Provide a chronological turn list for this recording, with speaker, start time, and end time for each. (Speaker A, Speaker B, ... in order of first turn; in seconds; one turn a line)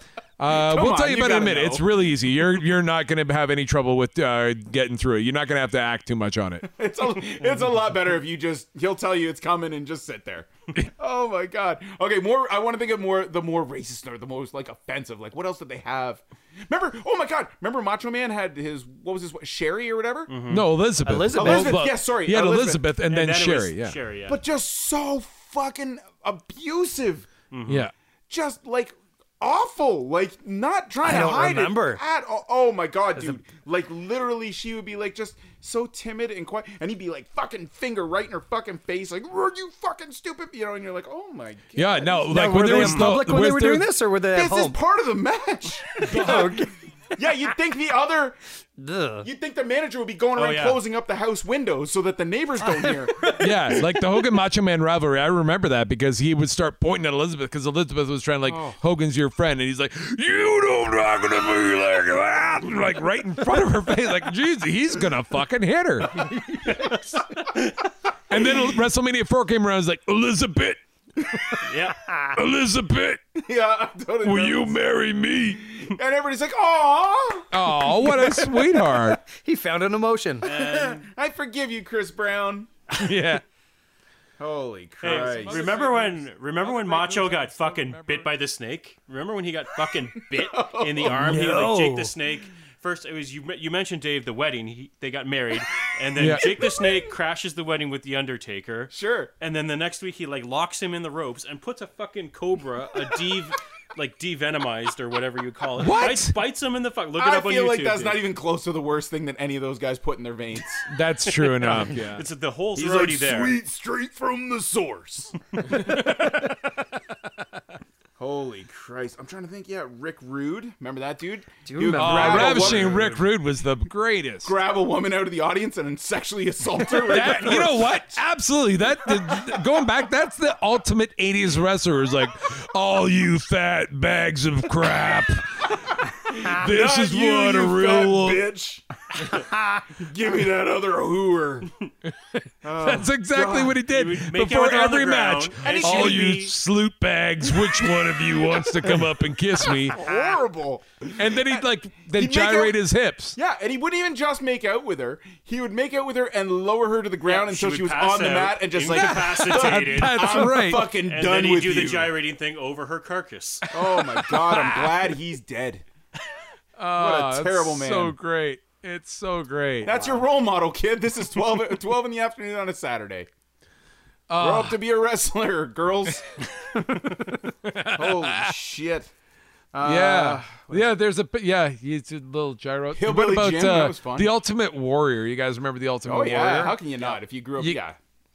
Speaker A: 0.4-6.7
Speaker B: 0.5-1.9
Speaker B: 6.8-20.3
Speaker C: 20.3-20.7
Speaker A: 20.5-23.9
Speaker D: 21.0-21.8
Speaker B: 21.3-22.9
Speaker C: 23.1-24.4
Speaker B: 24.3-27.3
Speaker C: 27.5-27.9
Speaker A: 27.6-27.9
Speaker B: 28.3-42.6
Speaker D: 31.0-32.0
Speaker D: 33.1-33.4
Speaker A: 41.7-43.9
Speaker D: 42.3-44.8
Speaker C: 42.7-43.2
Speaker B: 44.3-46.6
Speaker D: 46.0-46.7
Speaker A: 46.0-46.7
Speaker B: 47.1-48.4
Speaker D: 48.8-49.3
Speaker B: 49.2-53.4
Speaker C: 50.4-50.8
Speaker D: 52.6-54.3
Speaker A: 53.3-66.3
Speaker B: 58.5-58.8
Speaker D: 66.2-66.7
Speaker C: 66.7-67.0
Speaker A: 68.3-71.7
Speaker C: 71.6-72.0
Speaker D: 72.1-72.3
Speaker A: 72.3-73.2
Speaker B: 73.3-74.8
Speaker A: 74.2-75.6
Speaker B: 75.7-77.6
Speaker A: 77.5-79.2
Speaker D: 78.0-80.5
Speaker C: 80.4-81.0
Speaker B: 80.5-82.7
Speaker A: 82.9-83.4
Speaker B: 84.4-85.6
Speaker C: 85.0-108.2
Speaker A: 85.0-88.3
Speaker B: 90.4-91.3
Speaker D: 91.1-92.1
Speaker A: 96.2-96.6
Speaker B: 98.9-99.3
Speaker A: 105.8-106.3
Speaker B: 107.2-110.9
Speaker A: 110.9-112.2
Speaker C: 111.6-113.5
Speaker B: 112.8-115.9
Speaker A: 115.7-116.3
Speaker B: 118.2-123.3
Speaker D: 121.7-122.9
Speaker A: 121.9-124.5
Speaker B: 124.4-128.1
Speaker A: 127.0-138.4
Speaker B: 135.8-138.8
Speaker D: 139.3-139.8
Speaker B: 139.9-141.7
Speaker A: 142.1-150.0
Speaker B: 142.6-143.8
Speaker C: 143.9-146.5
Speaker B: 145.6-146.4
Speaker B: 149.9-151.6
Speaker A: 151.2-153.4
Speaker B: 152.1-152.8
Speaker B: 153.3-162.1
Speaker C: 157.2-163.7
Speaker A: 158.9-160.9
Speaker B: 163.7-165.8
Speaker A: 163.8-165.1
Speaker A: 166.8-170.2
Speaker B: 166.9-168.2
Speaker B: 169.8-173.3
Speaker A: 174.3-174.8
Speaker B: 174.4-176.3
Speaker A: 177.6-178.5
Speaker B: 177.9-179.1
Speaker B: 179.7-180.9
Speaker A: 179.8-186.8
Speaker B: 182.9-184.3
Speaker B: 186.0-188.0